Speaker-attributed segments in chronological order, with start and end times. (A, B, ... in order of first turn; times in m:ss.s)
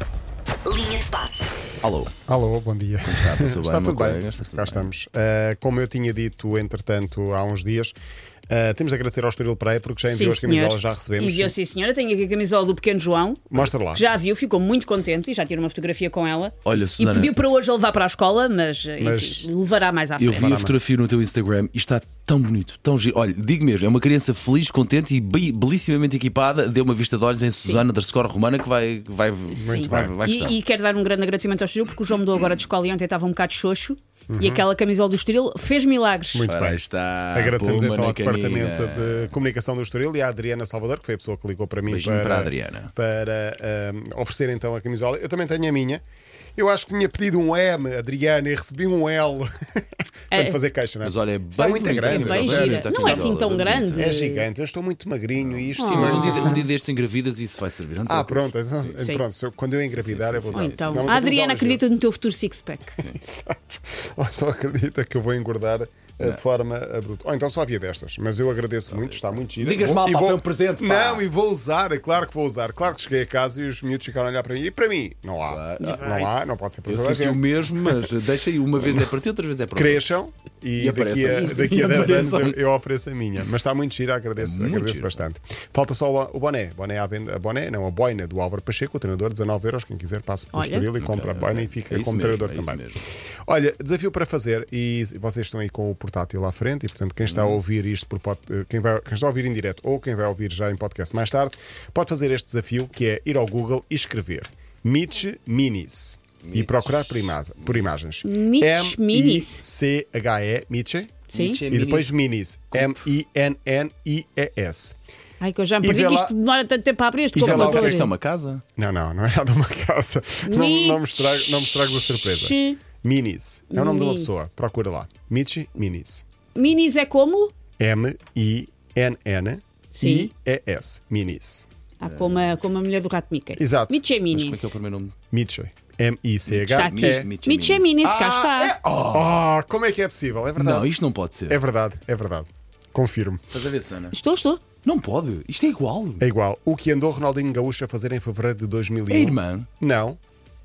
0:01.8-0:02.1 A
0:02.3-0:07.9 B
0:03.0-0:04.9 A
0:08.5-0:11.6 B
0:10.0-0:20.6 C
0:13.5-0:14.0 B
0:16.6-0:17.3 A
0:19.0-0:19.5 B
0:20.2-0:30.6 A
0:20.3-0:20.8 B
0:29.5-0:36.5 C
0:29.6-0:30.2 B
0:34.3-0:34.7 B
0:36.3-0:46.0 B
0:36.4-0:39.3 A
0:41.9-0:42.9 A
0:46.6-0:53.2 B
0:50.3-0:50.6 C
0:51.0-0:54.1 A
0:52.0-0:54.4 C
0:54.0-0:56.6 B
0:55.4-0:58.9 A
0:55.8-0:56.7 C
0:58.0-1:01.8 B
0:59.0-0:59.2 C
0:59.9-1:01.2 A
1:00.5-1:03.0 C
1:03.0-1:18.1 B
1:08.9-1:11.2 A
1:15.5-1:16.1 A
1:15.8-1:16.3 C
1:16.9-1:20.1 A
1:19.8-1:32.8 B
1:20.8-1:22.6 A
1:24.4-1:25.3 A
1:30.5-1:30.9 C
1:31.0-1:33.1 A
1:33.4-1:55.0 B
1:37.2-1:37.6 A
1:46.4-1:47.0 A
1:48.2-1:49.6 C
1:51.3-1:52.1 A
1:51.3-1:51.6 C
1:52.7-1:53.0 A
1:55.4-1:58.1 C
1:55.8-1:56.3 B
1:57.3-1:58.0 B
1:57.4-1:58.6 A
1:58.8-2:06.2 B
2:00.4-2:01.0 C
2:02.3-2:02.8 C
2:03.7-2:04.3 C
2:06.6-2:07.5 C
2:07.8-2:11.7 B
2:09.9-2:10.3 C
2:12.0-2:14.8 C
2:12.0-2:12.5 A
2:13.6-2:14.0 B
2:14.3-2:15.2 A
2:15.3-2:17.3 B
2:16.5-2:19.3 A
2:16.7-2:18.8 C
2:19.1-2:21.0 B
2:20.6-2:21.6 A
2:21.5-2:23.4 B
2:23.5-2:24.2 A
2:24.1-2:24.6 C
2:24.8-2:26.2 A
2:26.2-2:30.2 B
2:29.1-2:29.7 A